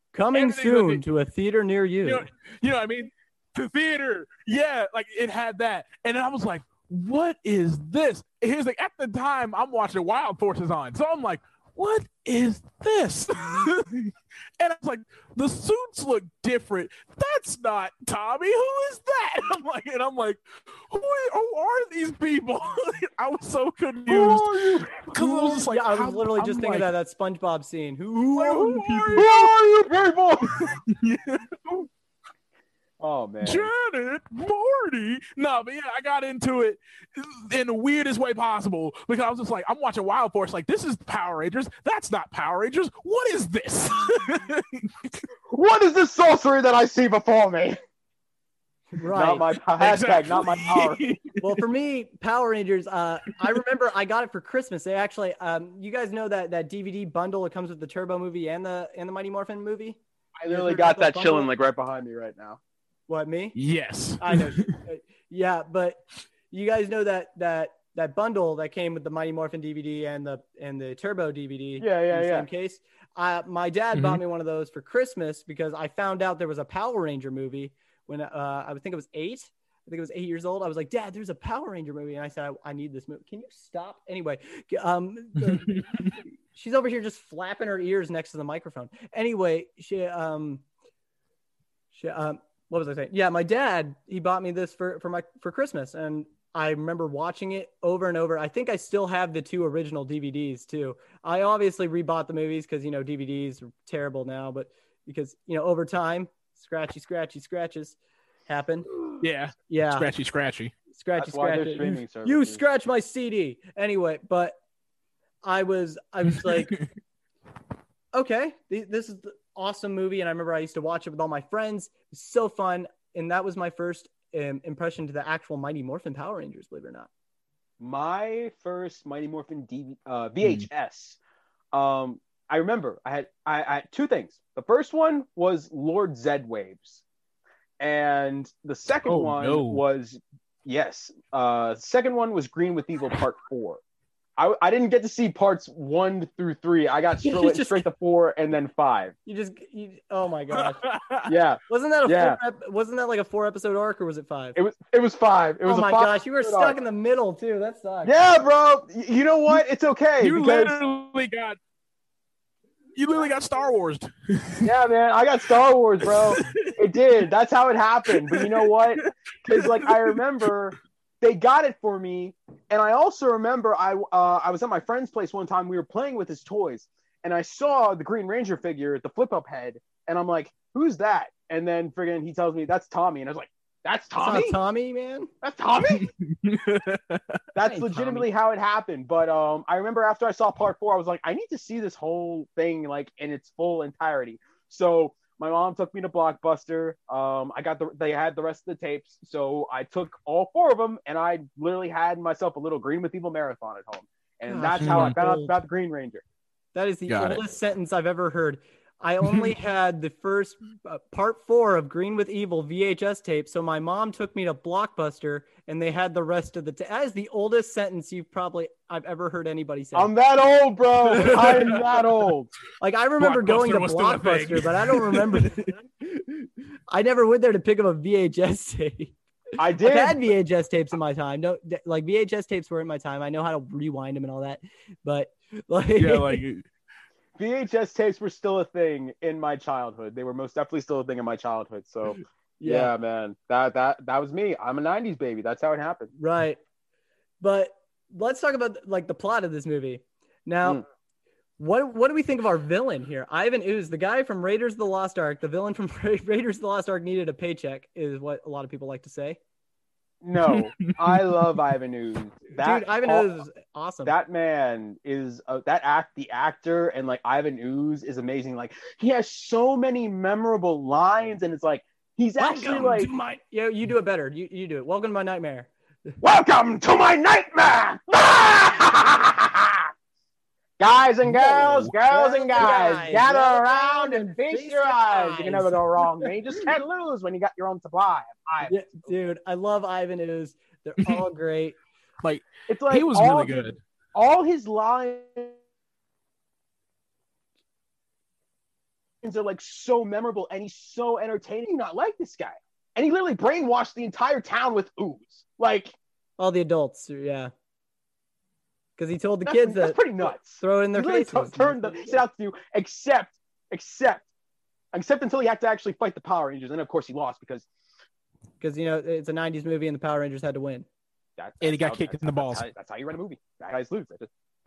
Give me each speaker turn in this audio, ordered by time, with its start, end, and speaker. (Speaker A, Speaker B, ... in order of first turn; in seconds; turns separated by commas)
Speaker A: 0.1-2.2, Speaker B: 0.3-1.0, Speaker B: 2.0-26.9, Speaker C: 24.1-25.0, Speaker A: 25.2-29.3, Speaker B: 28.3-29.5, Speaker C: 29.1-30.7, Speaker B: 30.7-31.9, Speaker C: 33.0-33.7, Speaker B: 33.4-45.2, Speaker C: 45.5-47.8, Speaker A: 48.9-49.5, Speaker C: 49.1-51.0, Speaker B: 49.8-51.6, Speaker A: 51.4-61.5, Speaker C: 60.4-62.6, Speaker A: 63.1-63.5, Speaker B: 63.5-64.8, Speaker A: 64.2-66.0, Speaker A: 66.5-90.6, Speaker C: 71.8-72.5, Speaker B: 73.9-74.2, Speaker B: 85.4-86.1, Speaker A: 91.9-108.9, Speaker B: 109.2-110.7, Speaker A: 109.7-110.1, Speaker A: 111.0-114.6, Speaker C: 111.2-112.6, Speaker A: 115.4-116.7, Speaker A: 118.1-127.1, Speaker C: 127.8-131.2, Speaker B: 130.4-130.7, Speaker C: 131.7-137.0, Speaker C: 137.8-143.8, Speaker B: 139.1-139.8, Speaker C: 144.4-149.2, Speaker A: 147.2-147.8, Speaker A: 149.3-150.8, Speaker B: 150.5-151.3, Speaker C: 151.3-152.4, Speaker A: 151.7-154.6, Speaker C: 154.6-156.8, Speaker A: 155.7-158.1, Speaker C: 158.0-160.8, Speaker B: 160.2-161.6, Speaker B: 162.9-164.7, Speaker C: 164.6-184.6, Speaker B: 166.0-166.7, Speaker B: 168.3-170.4, Speaker A: 184.2-185.3, Speaker C: 185.4-186.1, Speaker B: 185.9-187.2, Speaker C: 187.6-206.2, Speaker A: 187.7-188.3, Speaker A: 204.5-205.6, Speaker B: 204.8-205.2, Speaker A: 206.7-220.1, Speaker B: 207.1-207.4, Speaker C: 219.9-222.5, Speaker A: 221.1-221.7, Speaker B: 221.1-221.9, Speaker A: 222.8-229.2, Speaker B: 223.2-225.7, Speaker C: 229.6-230.2, Speaker A: 229.8-236.4, Speaker B: 236.0-236.7, Speaker C: 237.4-246.1, Speaker A: 242.6-242.9, Speaker A: 246.2-246.6, Speaker A: 247.4-250.8, Speaker A: 251.6-259.4, Speaker C: 260.2-263.3, Speaker B: 260.5-261.4, Speaker A: 262.6-264.1, Speaker C: 264.1-273.1, Speaker A: 272.4-276.1, Speaker C: 276.2-279.9, Speaker C: 280.8-288.9, Speaker B: 281.2-281.9, Speaker A: 282.0-286.3, Speaker A: 288.6-291.8, Speaker B: 292.2-293.8, Speaker C: 292.7-293.6, Speaker C: 294.1-295.6, Speaker C: 299.2-306.0, Speaker A: 306.4-307.5, Speaker A: 309.0-312.2, Speaker C: 309.5-314.3, Speaker C: 314.9-317.7, Speaker A: 318.6-320.9, Speaker C: 321.4-324.3, Speaker B: 321.6-322.6